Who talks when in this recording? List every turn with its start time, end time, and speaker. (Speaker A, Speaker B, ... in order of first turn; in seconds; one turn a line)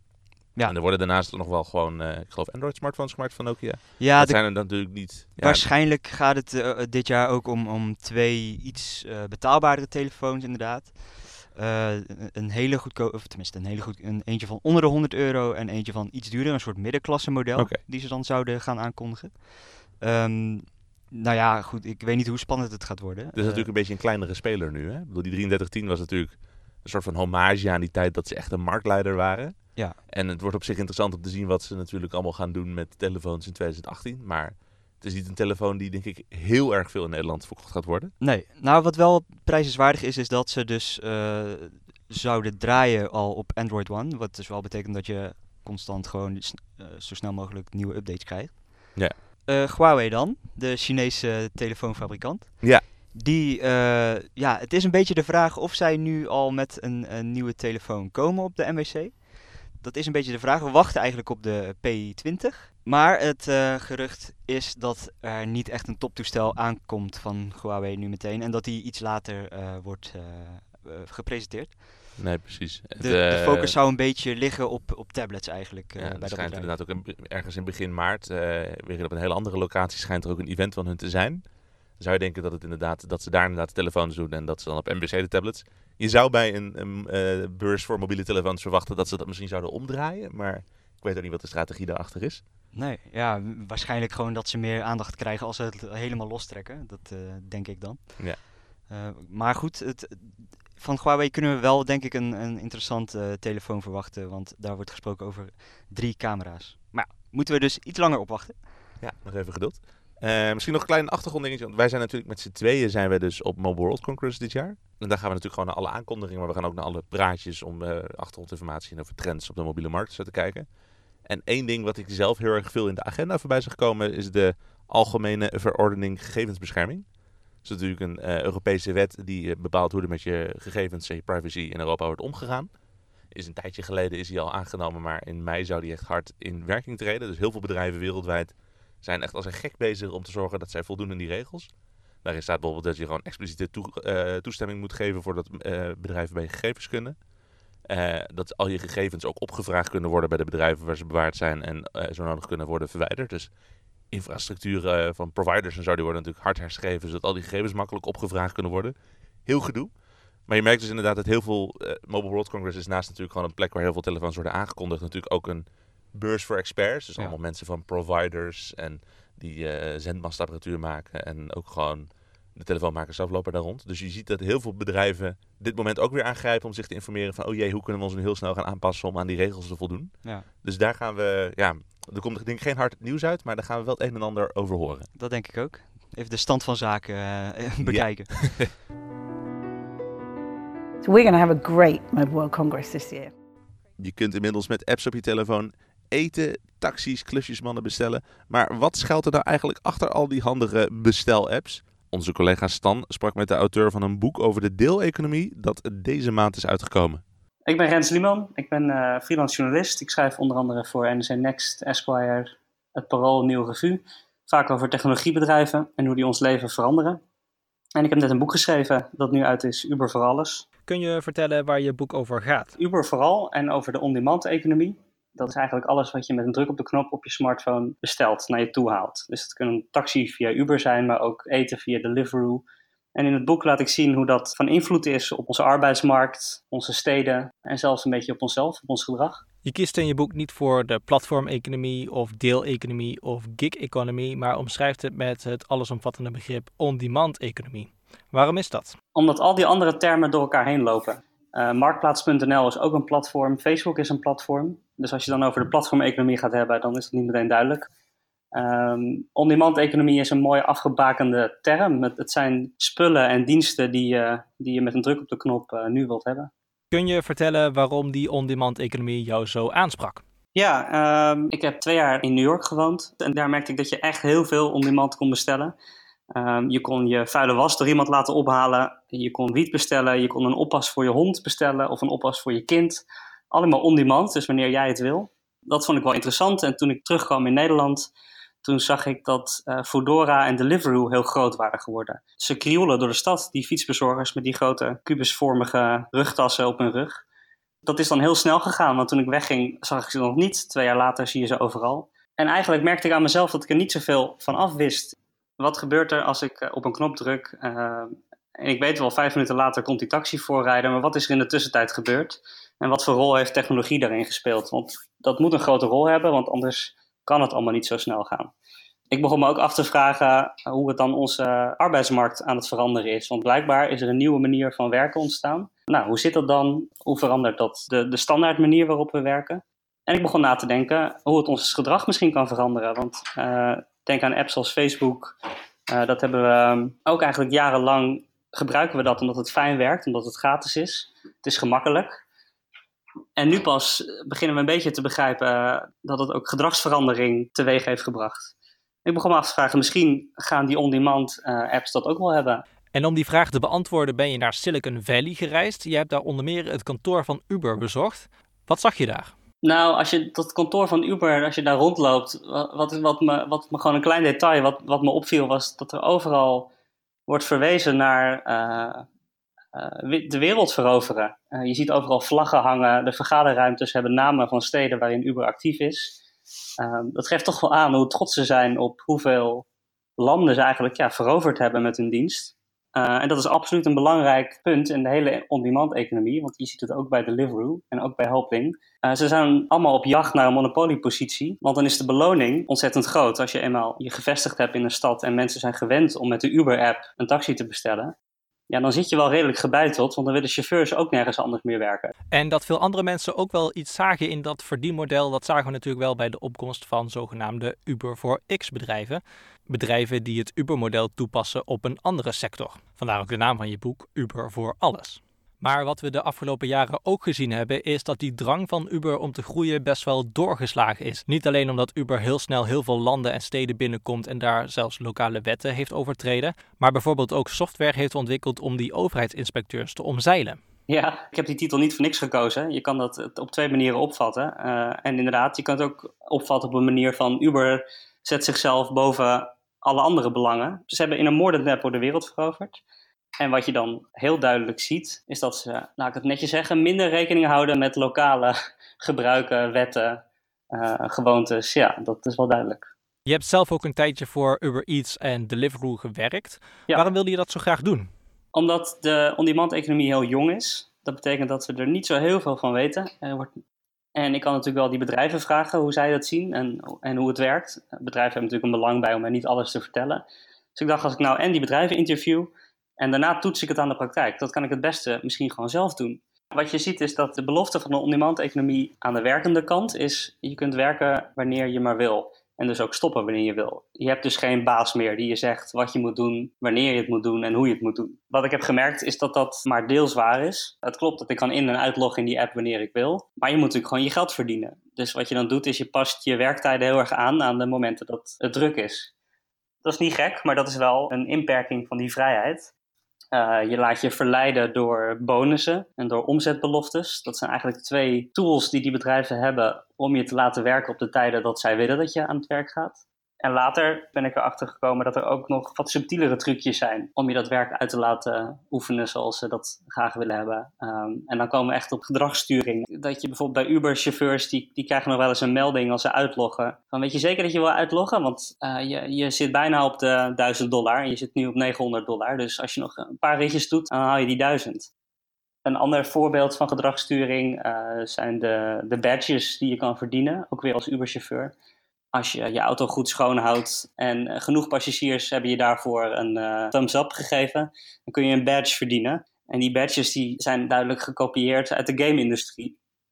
Speaker A: 0.6-5.7
Speaker B: 4.0-23.7
Speaker A: 17.6-17.8
Speaker A: 23.4-38.1
Speaker B: 38.2-72.2
Speaker A: 72.2-73.8
Speaker B: 73.0-76.8
Speaker A: 76.0-92.4
Speaker B: 92.7-108.9
Speaker A: 109.0-120.7
Speaker A: 121.3-127.0
Speaker A: 127.6-132.7
Speaker A: 133.3-141.7
Speaker A: 142.2-147.2
Speaker A: 147.9-153.5
Speaker A: 154.1-158.9
Speaker A: 159.5-159.9
Speaker A: 160.5-185.1
Speaker B: 180.2-180.5
Speaker B: 185.2-188.8
Speaker A: 187.8-188.7
Speaker C: 191.0-193.3
Speaker A: 194.0-207.2
Speaker D: 207.7-217.2
Speaker D: 218.0-220.7
Speaker E: 220.9-222.7
Speaker D: 222.8-239.4
Speaker E: 239.6-249.0
Speaker D: 249.2-257.9
Speaker D: 258.5-266.5
Speaker E: 266.9-270.2
Speaker D: 270.5-275.8
Speaker D: 276.3-288.1
Speaker D: 288.6-297.2
Speaker D: 297.8-318.5
Speaker D: 319.1-335.4
Speaker D: 335.9-342.2
Speaker D: 343.4-348.5
Speaker D: 349.1-352.6
Speaker E: 352.9-359.3
Speaker D: 359.6-366.7
Speaker D: 367.3-369.1
Speaker D: 369.7-376.2
Speaker D: 376.8-379.7
Speaker D: 380.2-398.1
Speaker D: 398.7-402.1
Speaker E: 402.3-430.6
Speaker D: 430.9-442.8
Speaker D: 443.4-452.9
Speaker E: 453.3-458.1
Speaker D: 458.5-463.6
Speaker D: 464.1-499.1
Speaker D: 499.8-502.7
Speaker D: 503.3-534.9
Speaker D: 535.6-541.5
Speaker D: 542.1-552.8